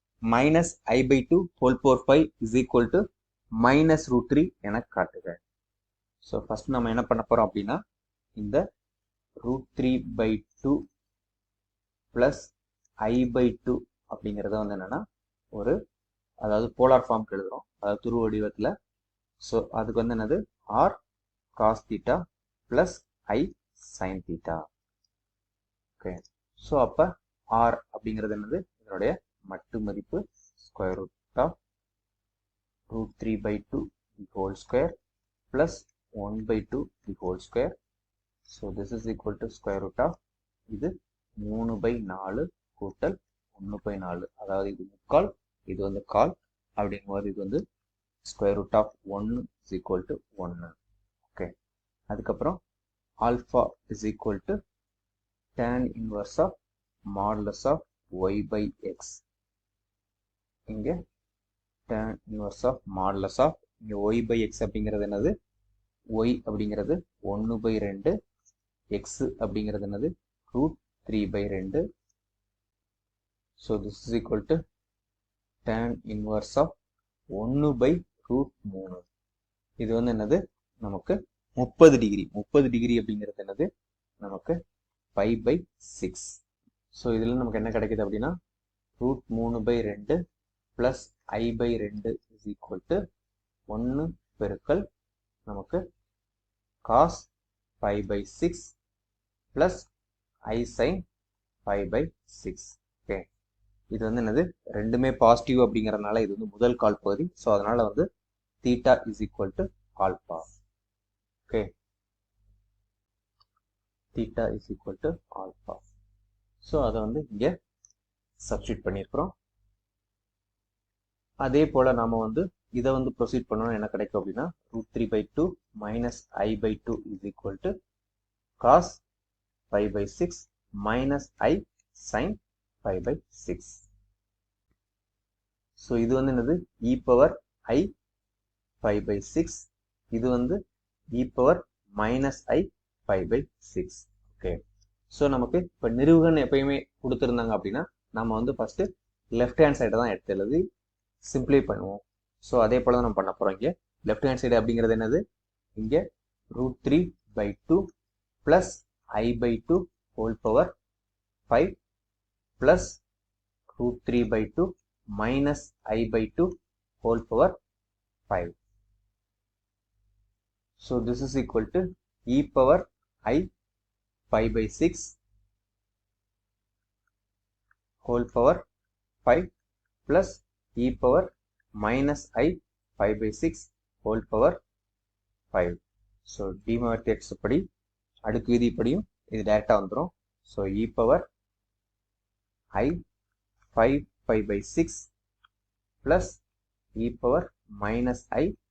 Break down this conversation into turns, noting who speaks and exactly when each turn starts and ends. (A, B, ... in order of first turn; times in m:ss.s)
0:00.3-0:03.0 A
0:03.6-0:05.4 A
0:06.2-0:07.8 A
0:08.4-0:08.6 A
0:09.4-0:10.8 A
0:12.1-0:12.5 A
0:13.0-0:15.8 A
0:16.4-0:18.7 A
0:19.4-0:21.0 A
0:21.6-0:24.7 A
0:26.0-0:31.6 A
0:32.9-0:34.9 A
0:35.5-0:37.7 A
0:38.5-0:40.1 A
0:40.7-0:47.6 A
0:48.2-0:50.8 A
0:52.1-0:52.6 A
0:53.2-0:54.6 A
0:55.6-0:56.5 A
0:57.1-0:59.2 A
1:00.7-1:01.0 A
1:01.9-1:05.3 A
1:06.1-1:08.1 A
1:08.9-1:11.8 A
1:13.6-1:14.6 A
1:15.6-1:16.7 A
1:17.3-1:19.0 A
1:19.8-1:23.7 A
1:24.2-1:24.6 A
1:25.2-1:26.4 A
1:26.9-1:28.4 A
1:29.0-1:30.2 A
1:30.8-1:33.0 A
1:33.7-1:34.8 A
1:35.5-1:35.8 A
1:36.8-1:37.3 A
1:37.8-1:38.7 A
1:39.5-1:39.9 A
1:40.5-1:41.0 A
1:41.6-1:43.3 A
1:43.9-1:48.0 A
1:48.6-1:50.5 A
1:54.1-1:55.8 A
1:56.6-1:57.5 A
1:58.4-1:59.3 A
2:01.4-2:07.7 A
2:08.6-2:09.0 A
2:09.7-2:13.8 A
2:15.8-2:17.9 A
2:18.8-2:20.6 A
2:21.1-2:24.6 A
2:25.1-2:30.6 A
2:31.2-2:35.2 A
2:35.8-2:36.0 A
2:36.5-2:37.8 A
2:38.4-2:40.7 A
2:41.5-2:41.7 A
2:42.6-2:43.0 A
2:43.7-2:47.6 A
2:48.3-2:48.6 A
2:50.8-2:53.5 A
2:54.3-2:55.2 A
2:58.0-2:58.6 A
2:59.2-2:59.5 A
3:00.1-3:04.6 A
3:05.5-3:07.6 A
3:08.2-3:11.3 A
3:12.7-3:13.0 A
3:13.7-3:15.1 A
3:16.0-3:16.4 A
3:17.0-3:18.5 A